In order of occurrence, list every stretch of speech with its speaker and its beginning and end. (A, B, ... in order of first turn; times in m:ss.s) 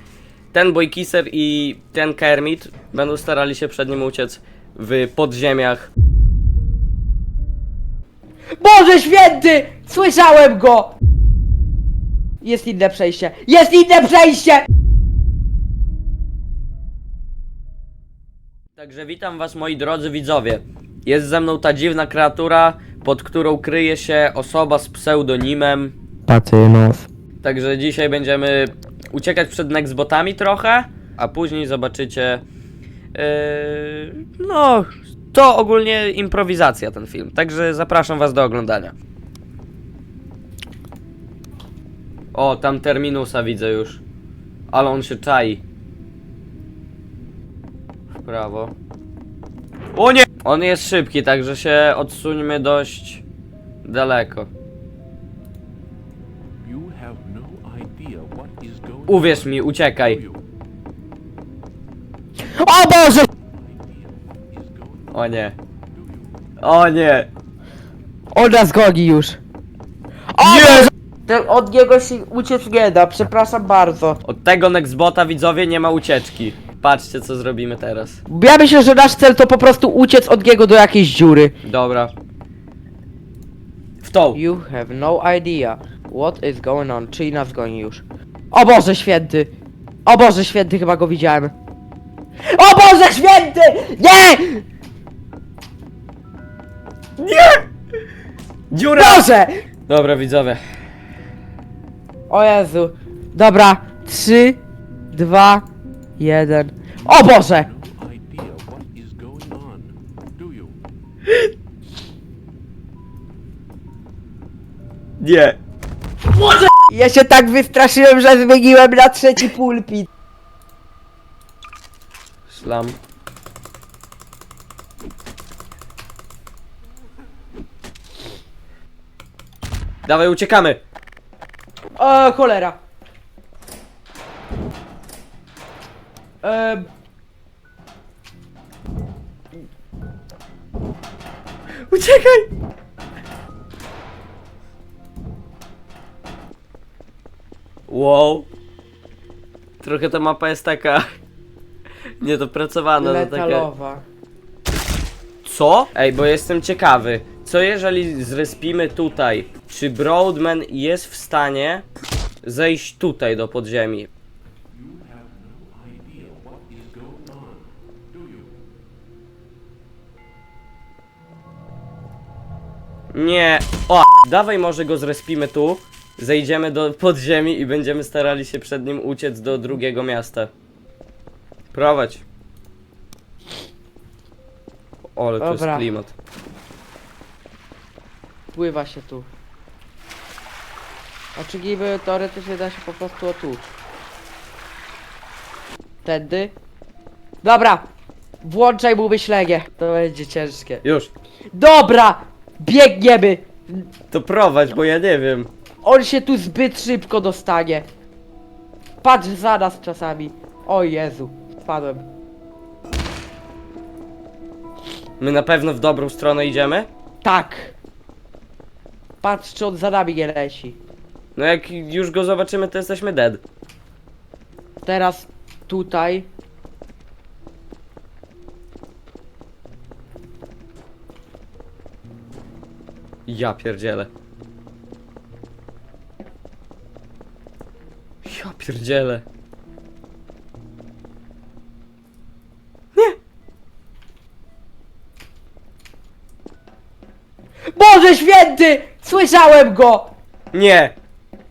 0:00.5-0:05.9 A
0:08.6-0:10.9 B
0:12.4-0:14.7 B
0:18.8-0:25.9 A
0:26.3-0:27.1 B
0:27.4-0:32.4 A
0:33.1-0:38.9 A
0:42.3-0:44.0 A
0:44.7-0:45.6 A
0:48.2-0:48.7 A
0:49.9-0:53.2 A
0:53.8-0:54.5 A
0:56.6-0:59.3 C
0:59.1-1:00.2 A
1:02.4-1:03.3 B
1:03.6-1:04.9 C
1:05.1-1:05.5 A
1:06.6-1:07.3 A
1:08.3-1:09.4 B
1:10.3-1:14.2 B
1:10.4-1:10.9 A
1:14.2-1:18.2 A
1:18.3-1:21.5 B
1:21.6-1:22.1 A
1:24.0-1:24.4 A
1:24.3-1:29.5 B
1:30.0-1:31.5 B
1:32.5-1:34.6 B
1:37.2-1:37.6 A
1:38.7-1:39.2 A
1:39.0-1:39.5 B
1:39.9-1:40.6 A
1:42.3-1:44.6 B
1:45.1-1:45.6 B
1:46.2-1:47.7 B
1:47.7-1:50.8 C
1:55.2-1:55.6 A
1:56.3-2:00.1 B
2:02.5-2:03.0 A
2:10.0-2:10.8 A
2:12.0-2:12.8 B
2:16.4-2:16.9 B
2:21.9-2:22.5 A
2:27.9-2:28.5 A
2:29.8-2:31.1 A
2:32.2-2:33.6 A
2:33.0-2:34.0 B
2:35.4-2:41.8 A
2:42.4-2:44.1 A
2:44.7-2:48.4 C
2:53.1-3:00.5 A
3:01.7-3:02.2 A
3:05.2-3:06.1 A
3:05.4-3:05.8 B
3:08.5-3:09.3 B
3:11.4-3:13.6 B
3:16.0-3:16.5 B
3:17.4-3:17.8 B
3:18.4-3:20.8 B
3:20.8-3:21.1 A
3:21.5-3:23.9 B
3:24.1-3:25.5 A
3:25.8-3:27.9 B
3:29.0-3:32.0 B
3:35.2-3:36.9 A
3:37.2-3:37.7 B
3:39.2-3:40.8 B
3:41.4-3:43.4 A
3:44.8-3:46.3 B
3:53.3-3:54.1 A
3:58.2-3:59.2 A
4:07.7-4:10.1 B
4:10.5-4:10.9 A